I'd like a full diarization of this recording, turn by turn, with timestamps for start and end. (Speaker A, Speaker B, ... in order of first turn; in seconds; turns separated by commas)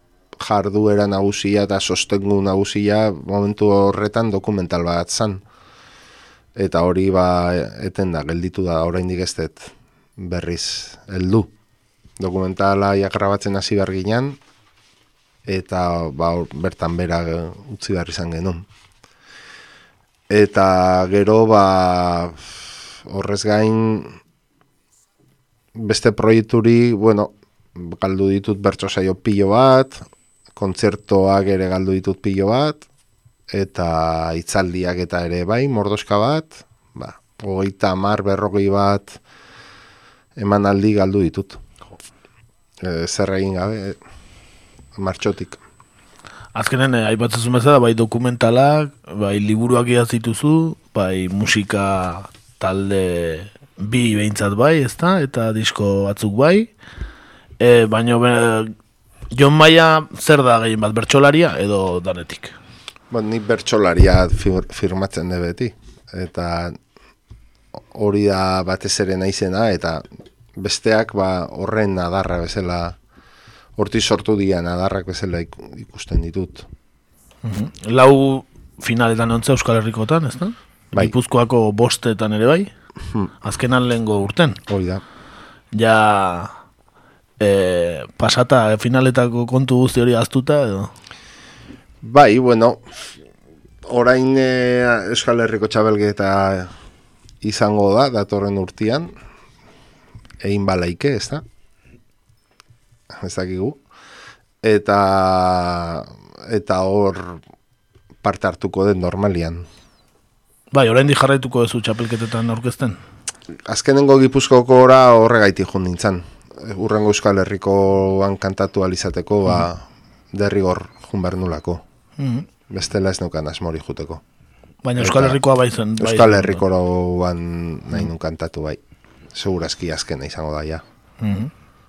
Speaker A: 0.4-5.4, Speaker A: 6.6-11.5, Speaker A: 12.2-14.4, Speaker A: 15.5-18.6, Speaker A: 20.3-22.5, Speaker A: 23.1-24.2, Speaker A: 25.8-30.0, Speaker A: 30.6-32.8, Speaker A: 33.5-39.2, Speaker A: 40.4-41.6, Speaker A: 42.8-44.0, Speaker A: 45.0-45.6, Speaker B: 46.5-56.7, Speaker B: 57.6-58.7, Speaker B: 59.3-62.5, Speaker A: 63.1-66.8, Speaker A: 67.9-70.0, Speaker A: 70.6-73.0, Speaker A: 73.8-76.7, Speaker B: 77.4-82.7, Speaker B: 83.4-84.6, Speaker A: 84.7-85.0, Speaker B: 85.7-86.5, Speaker B: 87.4-90.9, Speaker A: 92.0-93.0, Speaker A: 93.9-96.7, Speaker A: 97.4-99.1, Speaker A: 100.4-101.4, Speaker A: 103.2-103.8, Speaker A: 104.6-107.4, Speaker A: 108.2-109.7, Speaker B: 110.7-113.0, Speaker A: 113.7-121.8, Speaker B: 122.2-122.5, Speaker A: 122.7-124.2, Speaker B: 124.8-126.6, Speaker A: 125.0-125.4, Speaker A: 126.0-128.8, Speaker A: 129.3-130.8, Speaker B: 131.2-131.5